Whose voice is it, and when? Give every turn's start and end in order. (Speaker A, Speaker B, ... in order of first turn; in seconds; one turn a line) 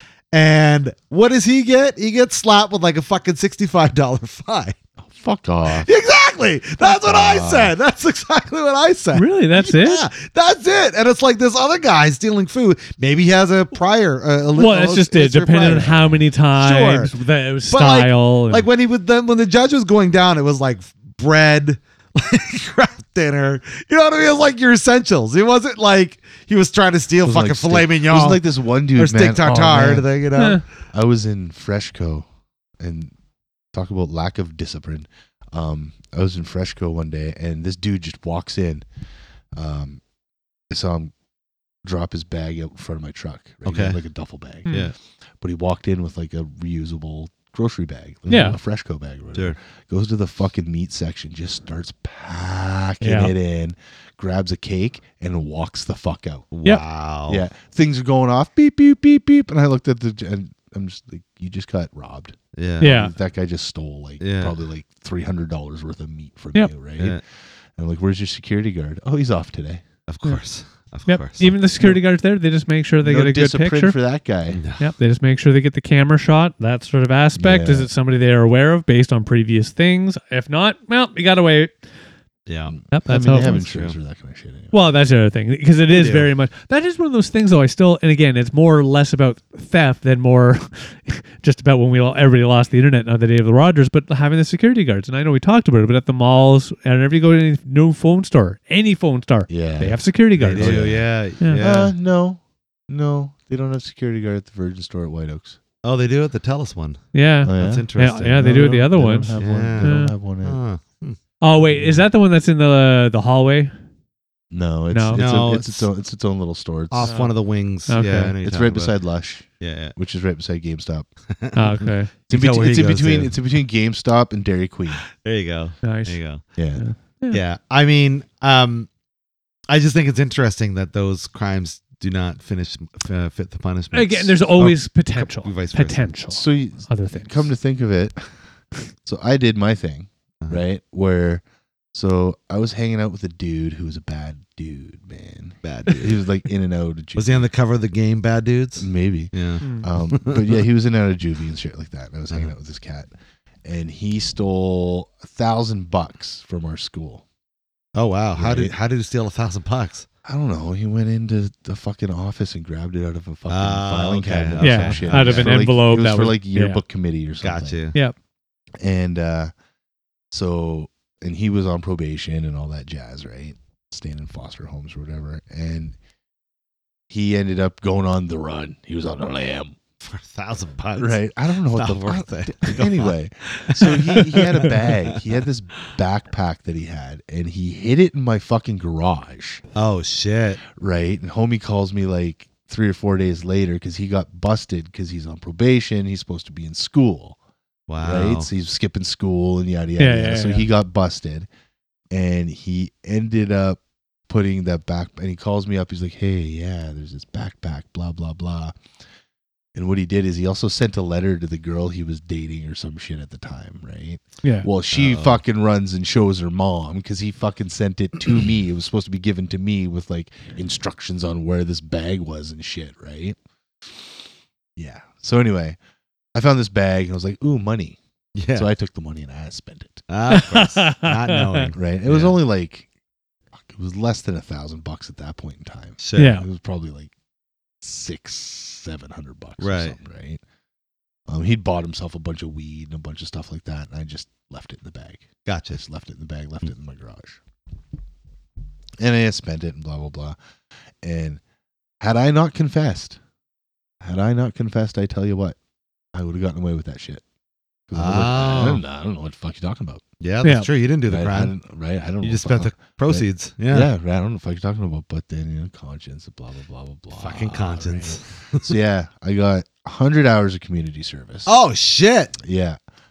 Speaker A: 0.3-4.8
Speaker B: 5.0-5.9
Speaker A: 5.7-17.1
Speaker B: 6.9-7.7
Speaker C: 9.2-10.1
Speaker C: 14.6-18.7
Speaker B: 15.6-16.1
Speaker A: 17.7-30.6
Speaker B: 27.2-30.1
Speaker C: 30.4-30.6
Speaker B: 30.9-32.3
Speaker B: 32.8-33.1
Speaker B: 33.7-38.9
Speaker B: 39.5-40.0
Speaker B: 40.7-41.1
Speaker B: 41.8-44.8
Speaker A: 43.6-44.0
Speaker C: 44.7-44.9
Speaker A: 44.7-44.9
Speaker B: 45.4-56.5
Speaker C: 48.3-48.6
Speaker C: 53.0-53.3
Speaker A: 56.5-57.4
Speaker B: 57.3-67.2
Speaker A: 62.6-63.0
Speaker C: 62.8-63.1
Speaker A: 64.2-64.6
Speaker B: 67.8-69.8
Speaker A: 70.1-71.6
Speaker C: 71.1-74.0
Speaker B: 73.0-74.6
Speaker A: 74.5-74.9
Speaker C: 74.8-81.7
Speaker B: 77.4-77.9
Speaker A: 82.5-82.8
Speaker B: 82.8-84.8
Speaker C: 82.9-83.7
Speaker A: 83.4-84.0
Speaker C: 84.7-101.6
Speaker A: 85.9-86.3
Speaker B: 99.5-105.6
Speaker A: 100.4-101.9
Speaker A: 105.8-108.6
Speaker C: 107.1-110.1
Speaker B: 107.4-110.6
Speaker A: 109.4-111.2
Speaker C: 111.4-113.7
Speaker B: 111.7-112.0
Speaker B: 114.5-117.2
Speaker C: 114.9-115.2
Speaker A: 115.1-115.9
Speaker A: 116.9-119.0
Speaker C: 117.0-117.3
Speaker C: 117.9-118.3
Speaker B: 118.4-121.1
Speaker A: 119.6-120.0
Speaker A: 121.3-123.3
Speaker C: 121.6-122.1
Speaker B: 122.3-125.0
Speaker A: 125.0-126.4
Speaker C: 125.8-126.2
Speaker B: 126.6-126.8
Speaker C: 126.8-127.4
Speaker A: 127.3-128.9
Speaker A: 129.7-136.1
Speaker C: 133.9-137.4
Speaker B: 136.3-138.2
Speaker B: 139.1-147.5
Speaker A: 145.6-146.2
Speaker A: 147.2-150.6
Speaker B: 148.8-153.1
Speaker C: 149.6-149.9
Speaker B: 153.6-157.2
Speaker A: 157.9-160.1
Speaker B: 158.3-158.7
Speaker B: 160.2-167.8
Speaker A: 163.5-165.6
Speaker C: 164.6-166.8
Speaker A: 167.4-167.9
Speaker B: 168.8-169.5
Speaker B: 170.3-176.0
Speaker B: 177.1-179.8
Speaker A: 180.0-185.3
Speaker B: 181.0-189.6
Speaker A: 189.8-190.6
Speaker B: 190.7-197.4
Speaker A: 197.9-198.5
Speaker B: 198.0-201.5
Speaker C: 200.0-200.7
Speaker B: 202.1-208.8
Speaker B: 209.8-223.4
Speaker A: 214.9-215.4
Speaker B: 224.8-225.8
Speaker B: 226.3-228.0
Speaker A: 228.3-228.7
Speaker B: 228.6-230.1
Speaker A: 230.1-232.4
Speaker C: 230.3-231.7
Speaker B: 231.7-232.9
Speaker B: 233.7-237.1
Speaker A: 236.0-236.4
Speaker C: 236.2-236.5
Speaker B: 237.8-240.4
Speaker A: 239.6-240.0
Speaker B: 241.3-247.4
Speaker A: 245.5-245.8
Speaker B: 249.0-250.4
Speaker B: 251.0-251.4
Speaker B: 252.0-253.2
Speaker B: 254.0-255.6
Speaker B: 256.1-257.2
Speaker B: 257.9-260.0
Speaker A: 257.9-258.8
Speaker A: 260.2-261.6
Speaker C: 260.4-260.7
Speaker B: 261.1-271.5
Speaker A: 262.2-263.9
Speaker A: 267.1-268.7
Speaker A: 271.5-272.4
Speaker B: 272.4-272.8